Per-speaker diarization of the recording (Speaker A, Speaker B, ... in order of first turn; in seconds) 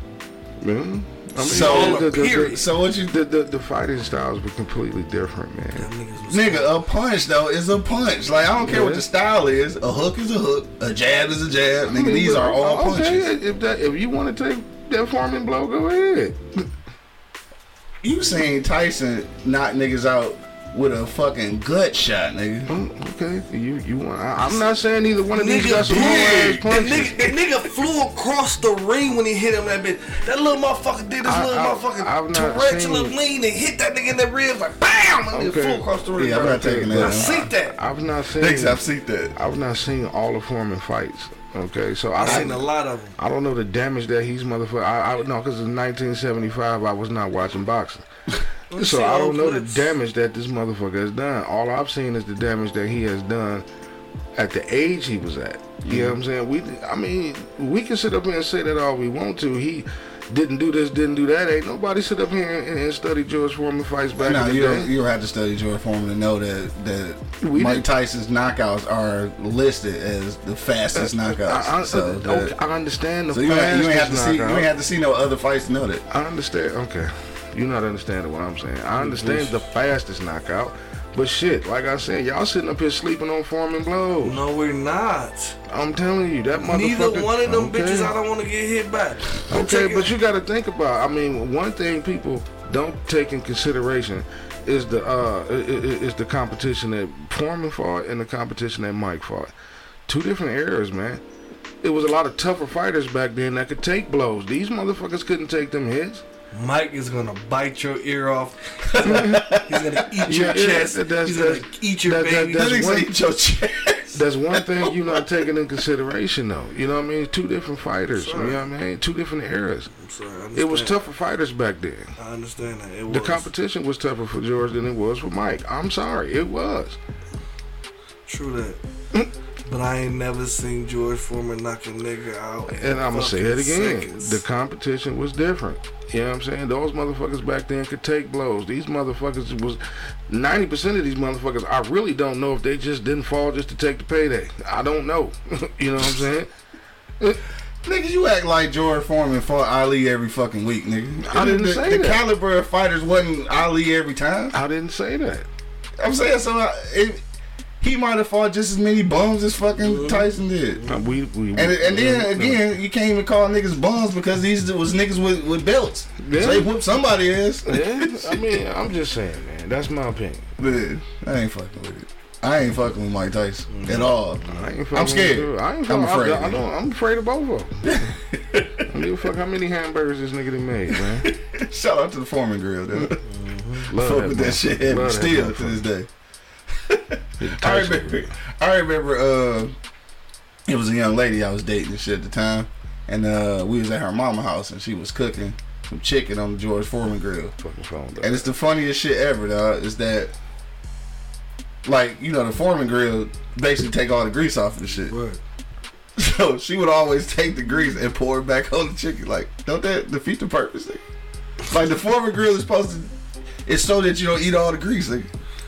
Speaker A: 0.6-5.9, 8.6-9.0, 11.9-16.7, 22.7-27.3, 31.2-33.2, 35.3-35.8, 36.5-38.8, 39.4-48.0, 48.8-53.6, 54.4-64.9, 67.4-67.9, 70.9-74.7, 76.1-84.4, 85.7-88.2, 89.5-99.5, 100.1-101.2, 101.8-106.2, 109.1-109.5, 110.3-113.1, 114.1-119.9, 120.5-122.2, 123.1-127.0, 132.7-146.5, 151.2-152.2, 154.5-155.5, 160.9-162.7, 166.2-166.8, 167.7-170.5, 174.5-178.2, 178.9-181.3, 183.9-185.9, 187.4-188.3, 197.6-198.5
Speaker B: 1.4-2.6, 5.8-6.7, 25.3-37.8, 42.1-43.1, 48.7-49.9, 79.0-79.5, 84.2-85.6, 86.6-90.1, 106.5-112.9, 118.2-118.6, 120.0-121.0, 122.2-123.5, 128.3-128.8, 129.7-134.4, 159.8-161.1, 173.7-174.7, 183.2-183.9, 205.1-205.4
Speaker C: 1.4-3.1, 6.3-13.3, 18.0-22.7, 25.9-26.6, 36.2-37.5, 38.4-39.4, 42.2-42.5, 55.8-56.2, 64.1-72.5, 73.3-76.0, 108.9-110.3, 112.5-115.3, 147.8-154.6, 156.0-157.2, 157.8-160.8, 161.6-168.5, 170.6-176.6, 177.8-178.9, 181.0-183.2, 183.9-186.1, 186.7-189.7, 190.7-197.6, 198.2-200.3, 201.8-205.2, 206.2-211.0, 211.7-213.1, 213.7-215.3